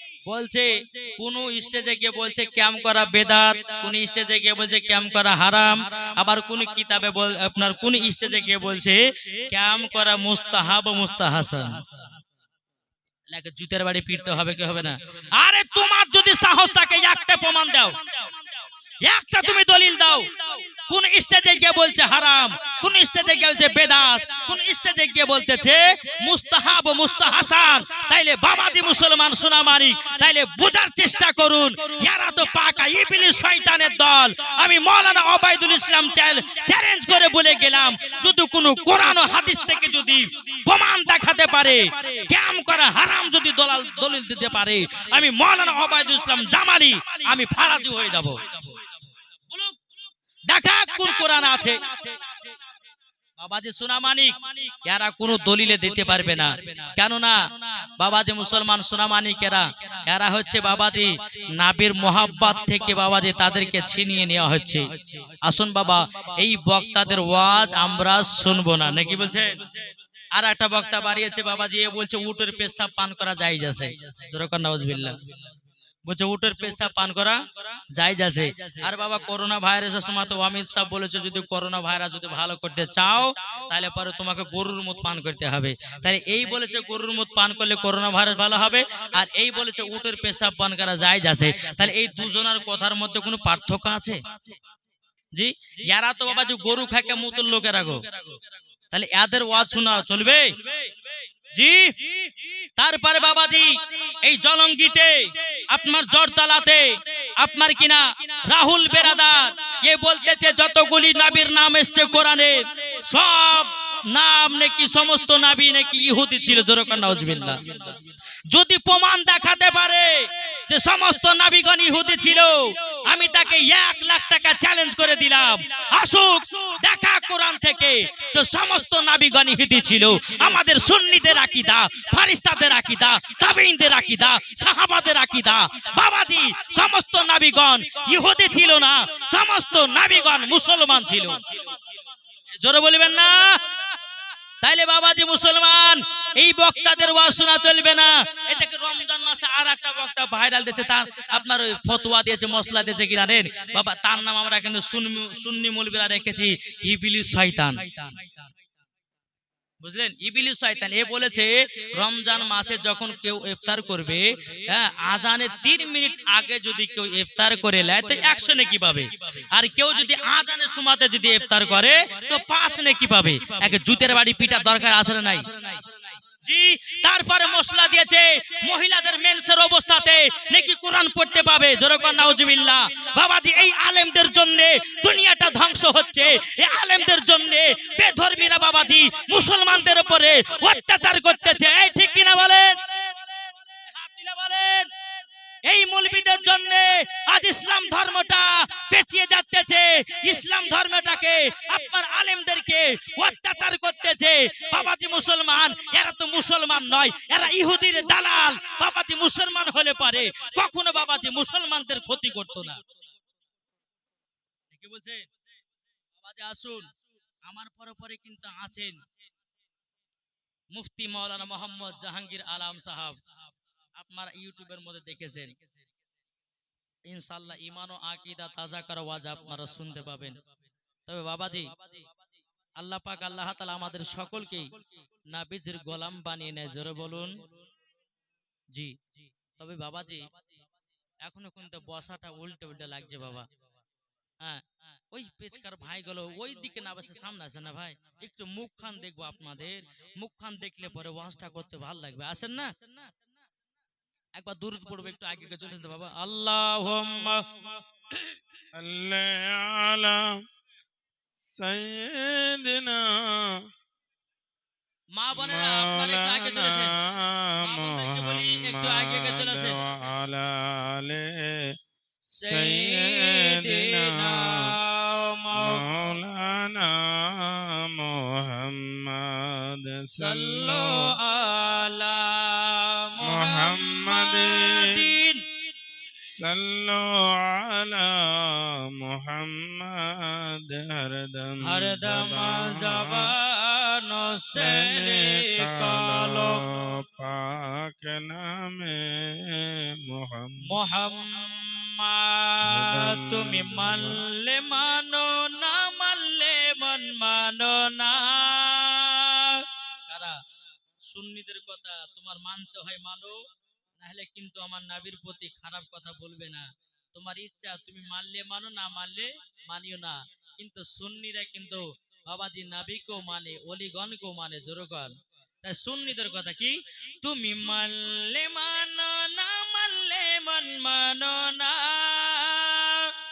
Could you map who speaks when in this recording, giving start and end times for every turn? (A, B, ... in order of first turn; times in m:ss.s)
0:00.2-0:11.9 A
0:13.3-0:18.2 A
0:19.0-0:48.8 A
0:49.5-0:49.8 A
0:50.5-0:52.3 A
0:53.4-1:09.7 A
1:10.3-1:15.4 A
1:16.0-1:17.4 A
1:17.9-1:34.2 A
1:35.3-1:38.2 A
1:38.9-1:40.6 A
1:41.5-1:42.1 A
1:42.8-1:57.9 A
1:58.5-2:21.5 A
2:22.6-2:23.6 A
2:24.6-2:38.2 A
2:39.8-2:55.8 A
2:56.4-3:13.0 A
3:13.9-3:14.9 A
3:15.6-3:32.8 A
3:34.7-3:35.3 A
3:36.2-3:36.9 A
3:37.4-3:39.0 A
3:40.7-3:43.2 A
3:44.0-3:45.6 A
3:47.1-3:50.4 A
3:51.1-3:52.1 A
3:52.8-3:57.3 A
3:58.7-4:00.3 A
4:01.2-4:03.5 A
4:04.4-4:13.1 A
4:14.4-4:18.4 A
4:18.7-4:20.4 B
4:21.4-4:23.6 B
4:25.1-4:27.0 A
4:25.4-4:31.7 B
4:27.6-4:29.8 A
4:32.2-4:35.8 A
4:32.4-4:34.8 B
4:35.5-4:41.1 B
4:40.2-4:45.4 A
4:43.2-4:45.1 B
4:46.2-4:53.3 B
4:51.6-4:56.6 A
4:54.4-5:00.7 B
5:00.6-5:10.4 A
5:02.6-5:04.2 B
5:11.1-5:13.4 A
5:14.0-5:33.1 A